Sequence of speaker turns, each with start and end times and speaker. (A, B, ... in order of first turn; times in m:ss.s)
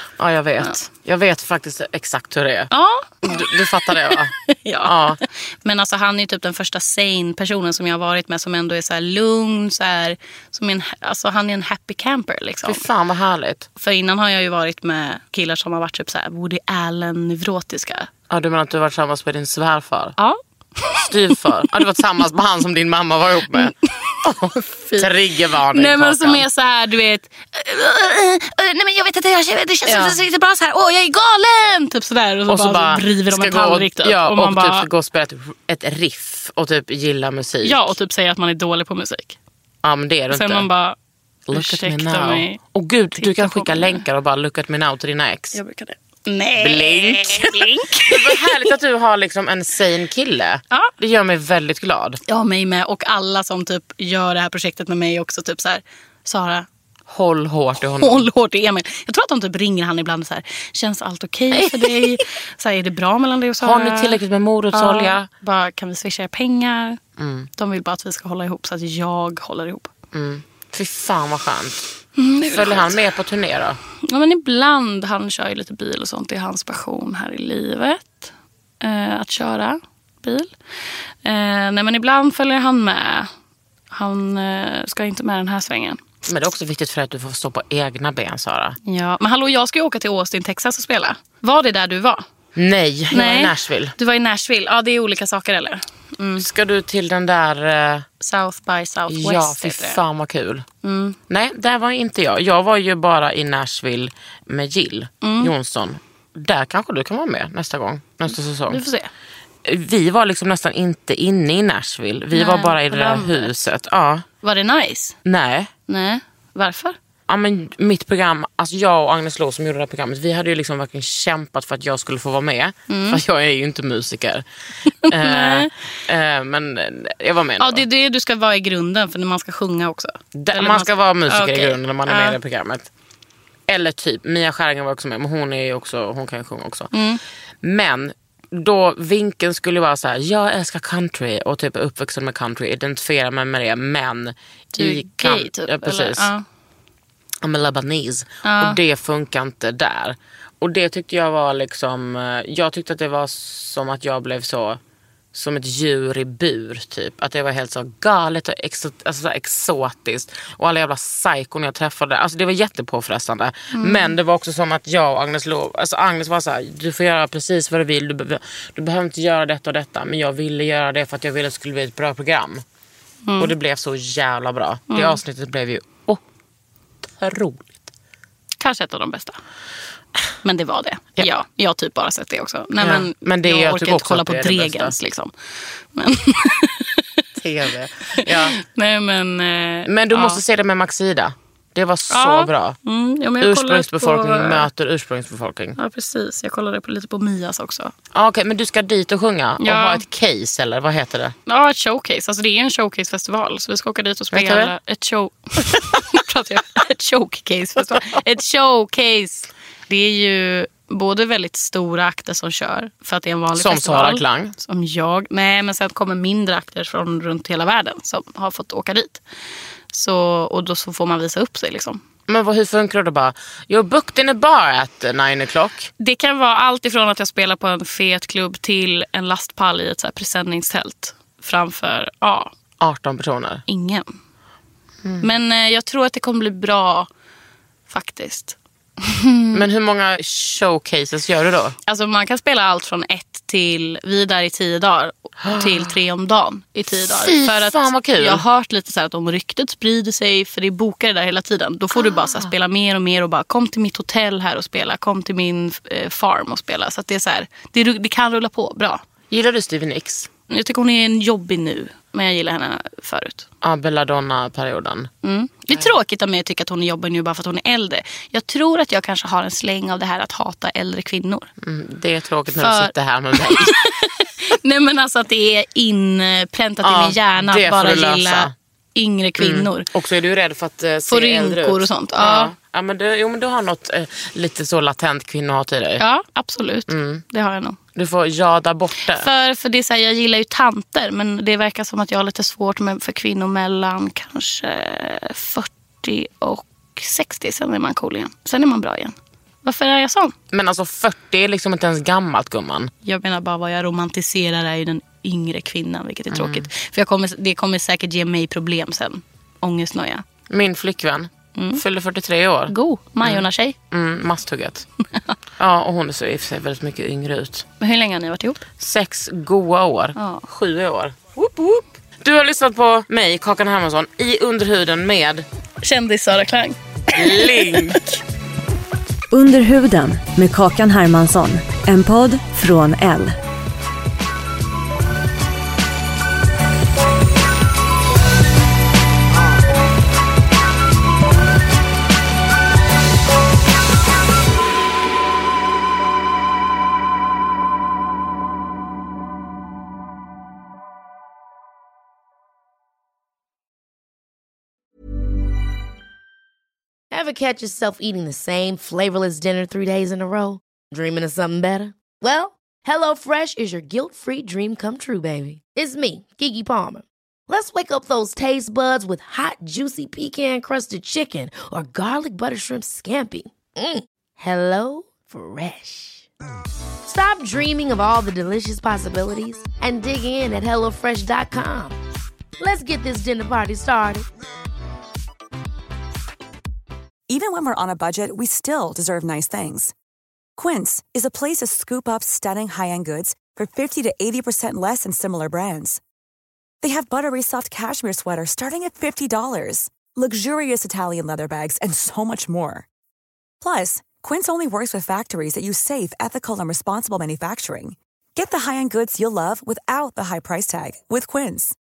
0:00.2-0:02.7 A
0:02.7-0:12.8 B
0:03.2-0:05.2 A
0:12.6-0:13.7 A
0:13.8-0:18.1 B
0:18.3-0:20.2 A
0:20.2-0:21.4 B
0:21.0-0:26.5 A
0:23.5-0:24.2 B
0:24.8-0:25.2 B
0:25.7-0:34.9 B
0:29.8-0:30.2 A
0:32.5-0:38.0 A
0:37.6-0:39.4 B
0:39.8-0:40.7 A
0:40.3-0:41.0 B
0:41.5-0:45.6 A
0:41.5-0:42.6 B
0:43.2-0:44.0 B
0:45.5-0:48.7 B
0:46.6-0:52.2 A
0:52.3-0:56.7 B
0:57.1-0:58.3 A
0:57.8-1:04.2 B
1:01.5-1:02.2 A
1:03.6-1:05.3 A
1:04.7-1:07.0 B
1:07.2-1:07.5 A
1:07.6-1:09.9 B
1:10.1-1:11.9 A
1:12.2-1:13.0 B
1:12.5-1:13.8 A
1:14.0-1:20.5 B
1:21.2-1:23.3 B
1:23.9-1:26.0 B
1:26.3-1:28.8 A
1:28.9-1:32.2 B
1:32.6-1:33.9 A
1:33.1-1:36.5 B
1:36.4-1:38.1 A
1:38.2-1:40.0 B
1:39.1-1:40.7 A
1:40.8-1:41.2 B
1:41.3-1:48.8 A
1:45.2-1:45.5 B
1:48.7-1:49.1 B
1:49.6-1:54.3 A
1:52.3-1:53.5 B
1:54.4-1:55.2 B
1:55.2-1:55.7 A
1:55.9-1:57.0 B
1:57.3-2:04.4 A
2:02.9-2:03.2 B
2:05.0-2:05.7 B
2:05.1-2:07.8 A
2:07.6-2:12.4 B
2:10.4-2:12.9 A
2:13.7-2:16.9 A
2:16.9-2:17.2 B
2:17.6-2:26.3 A
2:24.8-2:26.4 B
2:27.4-2:34.8 A
2:28.4-2:28.8 B
2:35.3-2:52.6 A
2:43.7-2:44.2 B
2:53.3-2:53.5 B
2:53.4-2:56.2 A
2:54.9-2:55.2 B
2:57.0-2:57.9 A
2:58.6-2:59.4 B
3:00.4-3:05.3 B
3:02.8-3:05.0 A
3:06.0-3:07.1 B
3:07.4-3:08.6 A
3:08.2-3:10.4 B
3:09.9-3:12.8 A
3:12.1-3:14.7 B
3:13.4-3:15.8 A
3:15.8-3:17.9 B
3:18.1-3:21.4 A
3:19.6-3:20.0 B
3:21.5-3:39.2 B
3:24.3-3:24.7 A
3:33.6-3:34.6 A
3:39.9-3:42.0 B
3:42.3-3:45.9 A
3:46.0-3:52.5 B
3:52.8-3:53.6 A
3:53.7-3:54.1 B
3:55.2-3:57.1 B
3:57.9-3:59.7 B
3:59.5-4:01.8 A
4:01.9-4:19.0 B
4:05.4-4:05.9 A
4:06.9-4:08.4 A
4:12.0-4:12.5 A
4:19.3-4:20.3 A
4:20.5-4:23.5 B
4:23.6-4:25.1 A
4:25.2-4:31.5 B
4:31.6-4:33.7 A
4:32.5-4:39.9 B
4:36.8-4:38.5 A
4:39.4-4:46.0 A
4:41.1-4:42.5 B
4:46.0-4:47.8 B
4:46.9-4:47.2 A
4:48.0-4:49.3 A
4:49.1-5:00.3 B
5:00.5-5:02.9 A
5:03.0-5:10.2 B
5:06.3-5:06.7 A
5:10.5-5:14.9 A
5:11.6-5:11.8 B
5:12.7-5:13.8 B
5:15.6-5:17.7 A
5:17.8-5:18.6 B
5:18.8-5:21.2 A
5:20.2-5:20.5 B
5:21.4-5:21.8 B
5:22.2-5:25.5 A
5:25.8-5:28.0 B
5:27.1-5:28.2 A
5:29.3-5:33.4 C
5:57.1-6:16.3 D
6:17.0-6:22.0 D
6:22.6-6:24.3 D
6:27.3-6:29.9 E
6:30.6-6:36.0 E
6:36.8-6:42.9 E
6:43.6-6:51.8 E